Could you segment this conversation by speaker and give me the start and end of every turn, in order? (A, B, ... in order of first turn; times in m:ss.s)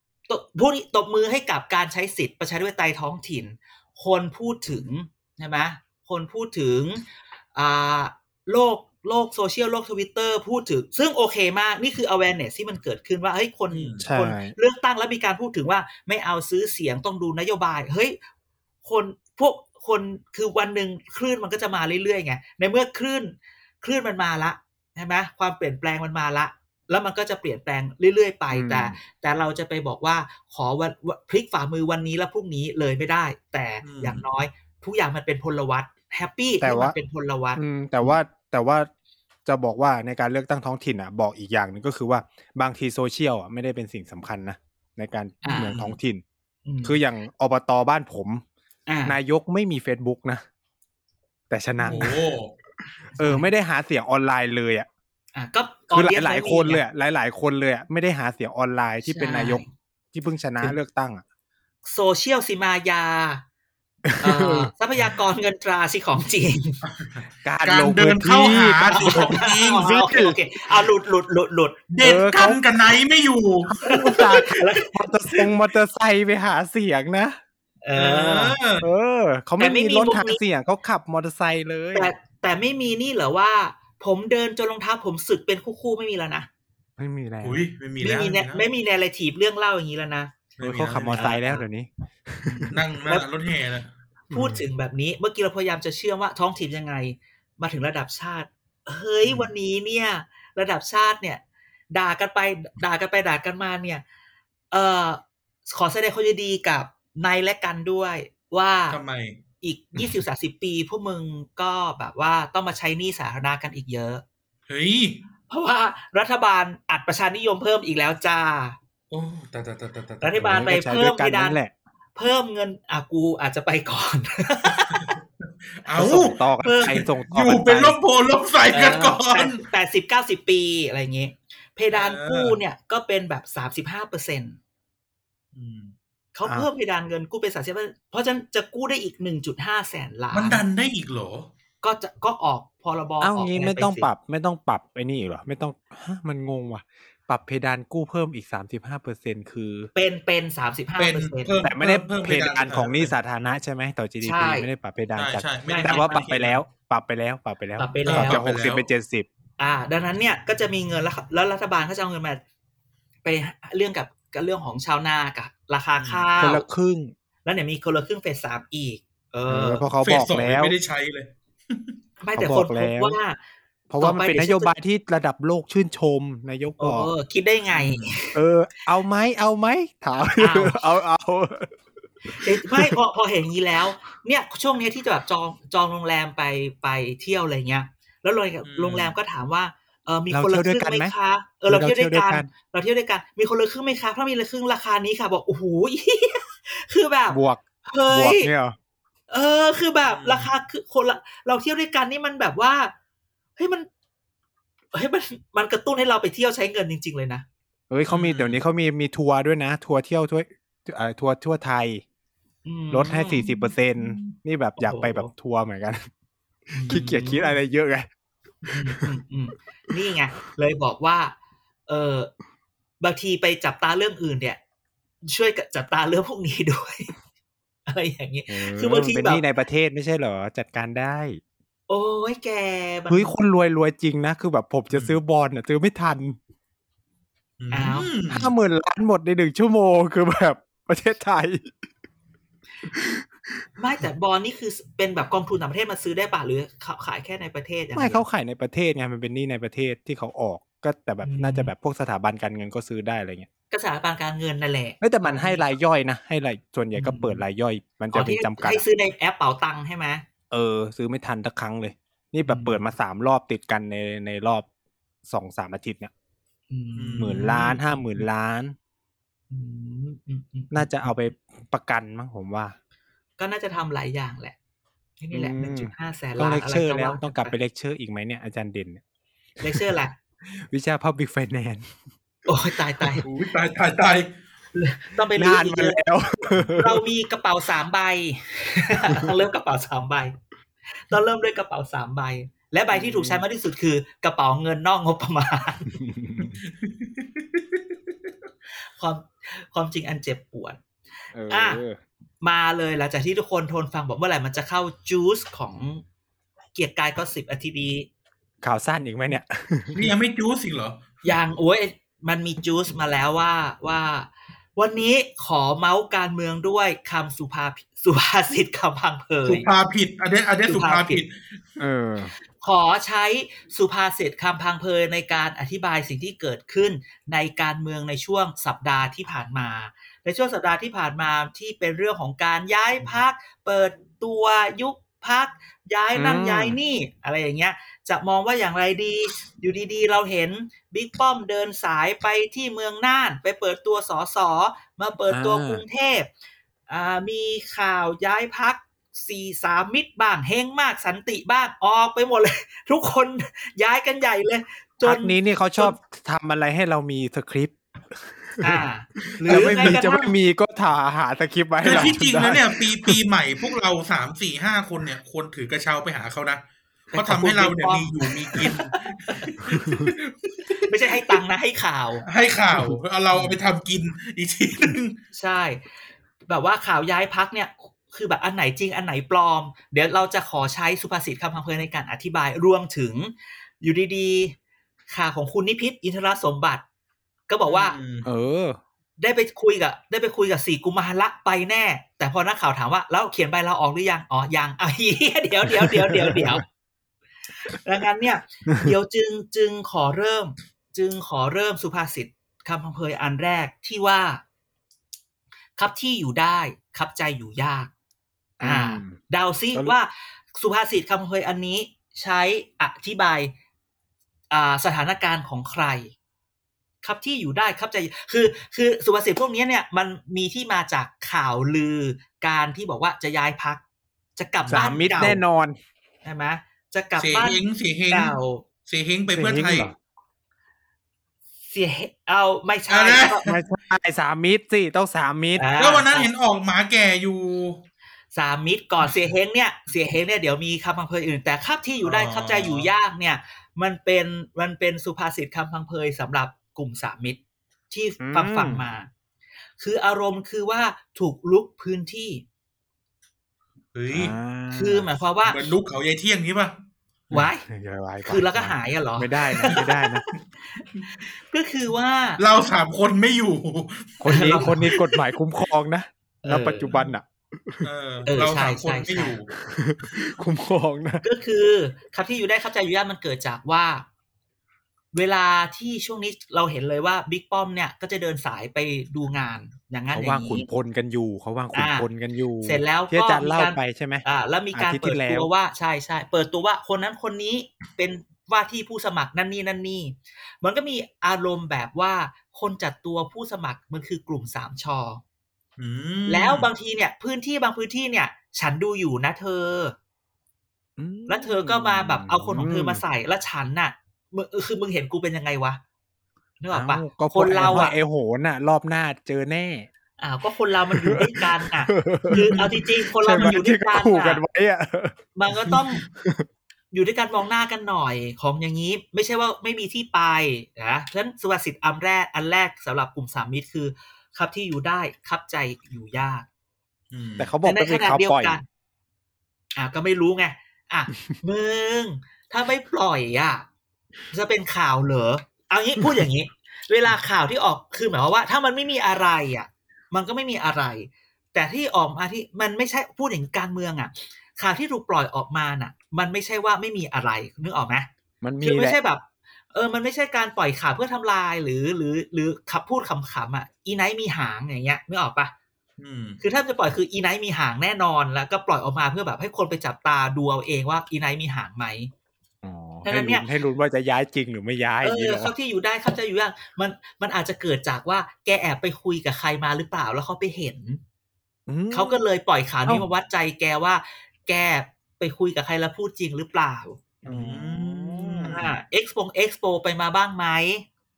0:00.3-0:18.2 A
0:13.7-0:14.1 B
0:14.0-0:14.6 C
0:18.8-0:38.2 A
0:28.5-0:29.0 C
0:33.8-0:34.2 B
0:36.6-0:37.0 C
0:37.6-0:38.9 C
0:39.5-0:46.2 C
0:45.4-0:45.8 A
0:45.5-0:46.0 B
0:46.7-0:47.0 A
0:46.8-0:48.4 C
0:48.9-0:49.2 A
0:49.1-0:50.4 C
0:51.5-0:52.2 C
0:51.8-0:52.5 B
0:51.9-0:52.2 A
0:53.2-0:53.5 A
0:53.2-0:54.9 C
0:55.4-0:56.8 A
0:55.9-1:01.2 C
0:59.0-0:59.7 A
1:01.8-1:03.4 A
1:04.1-1:04.7 C
1:04.2-1:06.8 A
1:07.0-1:10.0 B
1:07.4-1:10.4 C
1:08.9-1:12.0 A
1:11.9-1:14.3 B
1:12.0-1:12.6 C
1:13.7-1:17.4 C
1:13.8-1:15.5 A
1:17.8-1:18.6 A
1:18.0-1:18.9 B
1:18.8-1:22.1 C
1:19.6-1:20.4 A
1:21.9-1:26.5 A
1:27.0-1:27.6 C
1:27.4-1:28.7 B
1:28.0-1:30.3 A
1:30.6-1:31.4 B
1:30.6-1:32.7 C
1:31.1-1:31.6 A
1:32.4-1:33.3 A
1:32.7-1:33.9 B
1:34.3-1:34.6 C
1:34.3-1:44.0 A
1:39.2-1:39.5 B
1:44.7-1:49.0 A
1:48.9-1:49.4 B
1:49.6-1:54.2 A
1:54.7-1:55.2 B
1:55.5-1:58.8 A
1:59.1-2:00.7 B
2:00.2-2:01.6 A
2:00.4-2:01.7 C
2:02.2-2:05.1 A
2:04.8-2:09.6 B
2:05.9-2:08.0 C
2:06.6-2:07.0 A
2:08.7-2:14.6 A
2:11.9-2:12.6 B
2:15.5-2:16.0 B
2:16.3-2:20.6 A
2:20.3-2:21.5 B
2:21.8-2:24.1 A
2:23.2-2:29.9 C
2:30.0-2:31.6 A
2:31.0-2:33.1 B
2:31.6-2:39.3 C
2:34.2-2:34.7 A
2:35.2-2:36.6 B
2:35.6-2:36.2 A
2:37.8-2:38.4 A
2:38.1-2:38.9 B
2:39.6-2:42.4 A
2:43.2-2:46.7 A
2:46.0-2:46.3 B
2:46.4-2:47.1 C
2:47.4-2:49.8 A
2:49.5-2:50.8 C
2:50.0-2:51.9 B
2:52.2-2:53.4 A
2:52.4-2:53.2 C
2:53.9-2:57.1 C
2:54.0-2:54.7 A
2:56.8-2:58.4 A
2:58.3-3:01.8 C
3:00.4-3:00.8 A
3:02.3-3:18.5 A
3:02.5-3:03.0 C
3:08.6-3:09.2 B
3:10.3-3:11.1 C
3:11.7-3:12.5 C
3:17.3-3:18.8 C
3:19.3-3:22.9 A
3:20.1-3:20.5 B
3:23.6-3:23.9 A
3:24.9-3:27.4 A
3:27.9-3:32.0 C
3:28.1-3:28.6 B
3:32.6-3:35.3 A
3:32.9-3:36.1 C
3:36.7-3:37.6 A
3:36.9-3:38.1 C
3:38.6-3:41.4 A
3:38.7-3:39.1 C
3:41.9-3:42.3 A
3:43.0-3:44.6 A
3:45.3-3:47.1 A
3:47.9-3:49.4 A
3:48.5-3:51.4 C
3:51.9-3:53.3 A
3:53.1-3:56.4 C
3:54.9-3:55.2 B
3:57.6-3:58.5 B
3:57.7-3:58.1 A
3:58.3-4:01.7 C
4:02.9-4:03.2 C
4:03.8-4:08.2 A
4:08.0-4:13.5 C
4:11.2-4:11.7 A
4:13.7-4:15.7 A
4:15.0-4:18.8 C
4:16.9-4:17.4 A
4:18.1-4:20.2 A
4:20.5-4:24.7 C
4:22.4-4:22.8 A
4:25.3-4:26.1 C
4:26.7-4:28.3 A
4:27.0-4:27.4 B
4:27.2-4:28.8 C
4:29.5-4:31.1 A
4:30.7-4:32.8 C
4:33.4-4:34.6 A
4:35.2-4:37.5 A
4:35.3-4:39.0 C
4:39.6-4:40.2 A
4:40.5-4:41.9 C
4:42.5-4:43.2 A
4:43.2-4:44.3 B
4:44.7-4:46.0 A
4:45.4-4:47.0 C
4:46.8-4:50.4 A
4:51.0-4:56.0 A
4:52.9-4:53.4 C
4:56.0-4:56.6 C
4:56.6-4:57.8 B
4:58.9-5:00.8 A
5:01.3-5:02.0 C
5:01.5-5:01.8 A
5:02.4-5:06.0 A
5:06.8-5:08.1 A
5:08.6-5:10.1 C
5:10.0-5:11.3 B
5:11.2-5:19.7 A
5:19.5-5:21.4 B
5:20.7-5:21.2 A
5:21.8-5:22.3 C
5:22.6-5:46.3 A
5:36.2-5:36.8 C
5:45.3-5:45.8 C
5:46.9-5:56.0 A
5:55.0-5:58.8 C
5:58.6-6:00.3 A
5:59.4-6:03.2 C
5:59.5-6:00.0 B
6:01.8-6:06.6 B
6:07.1-6:09.7 A
6:07.1-6:11.4 B
6:10.8-6:12.2 A
6:12.3-6:15.2 B
6:15.3-6:15.8 A
6:16.5-6:24.6 A
6:25.1-6:26.8 A
6:27.5-6:28.0 A
6:27.7-6:28.3 B
6:28.2-6:28.8 C
6:29.2-6:36.6 A
6:35.7-6:36.6 C
6:37.6-6:44.4 A
6:45.8-6:47.9 A
6:48.6-6:53.5 A
6:48.6-6:49.2 C
6:54.5-6:56.1 A
6:57.0-7:03.8 A
7:04.4-7:05.4 A
7:04.7-7:05.8 C
7:06.2-7:08.6 A
7:07.2-7:08.4 B
7:08.9-7:09.9 B
7:09.3-7:10.0 C
7:11.7-7:13.5 A
7:12.9-7:13.6 B
7:13.4-7:15.7 C
7:15.6-7:16.3 A
7:15.8-7:17.8 B
7:18.3-7:29.1 A
7:22.0-7:22.9 B
7:28.2-7:28.9 C
7:29.8-7:32.4 A
7:33.9-7:34.4 B
7:34.1-7:35.1 C
7:34.7-7:35.7 A
7:35.4-7:36.8 B
7:37.3-7:37.7 A
7:37.4-7:40.2 C
7:38.2-7:40.0 A
7:41.2-7:42.4 A
7:42.4-7:44.7 B
7:44.2-7:47.8 C
7:44.3-7:45.2 A
7:46.4-7:47.0 A
7:47.8-7:49.5 B
7:48.3-7:49.4 A
7:49.6-7:51.2 C
7:51.2-7:54.1 A
7:55.1-8:00.7 A
8:00.1-8:05.5 C
8:01.7-8:02.1 A
8:02.6-8:15.2 A
8:15.8-8:16.7 B
8:16.3-8:20.0 A
8:21.0-8:23.0 C
8:21.3-8:25.8 A
8:26.6-8:28.0 A
8:26.7-8:29.9 C
8:30.2-8:34.4 A
8:30.9-8:36.5 C
8:32.3-8:32.8 B
8:35.4-8:36.0 A
8:36.9-8:46.5 A
8:47.1-8:47.5 B
8:47.4-8:48.6 C
8:47.6-8:48.6 A
8:49.8-8:53.7 A
8:54.3-9:08.1 A
9:08.4-9:09.0 C
9:08.6-9:15.5 A
9:16.0-9:16.4 B
9:16.4-9:22.1 A
9:22.6-9:25.5 C
9:23.0-9:23.5 A
9:25.0-9:31.0 A
9:31.7-9:32.2 C
9:31.9-9:37.0 A
9:37.2-9:38.6 C
9:37.2-9:38.7 B
9:38.5-9:40.9 A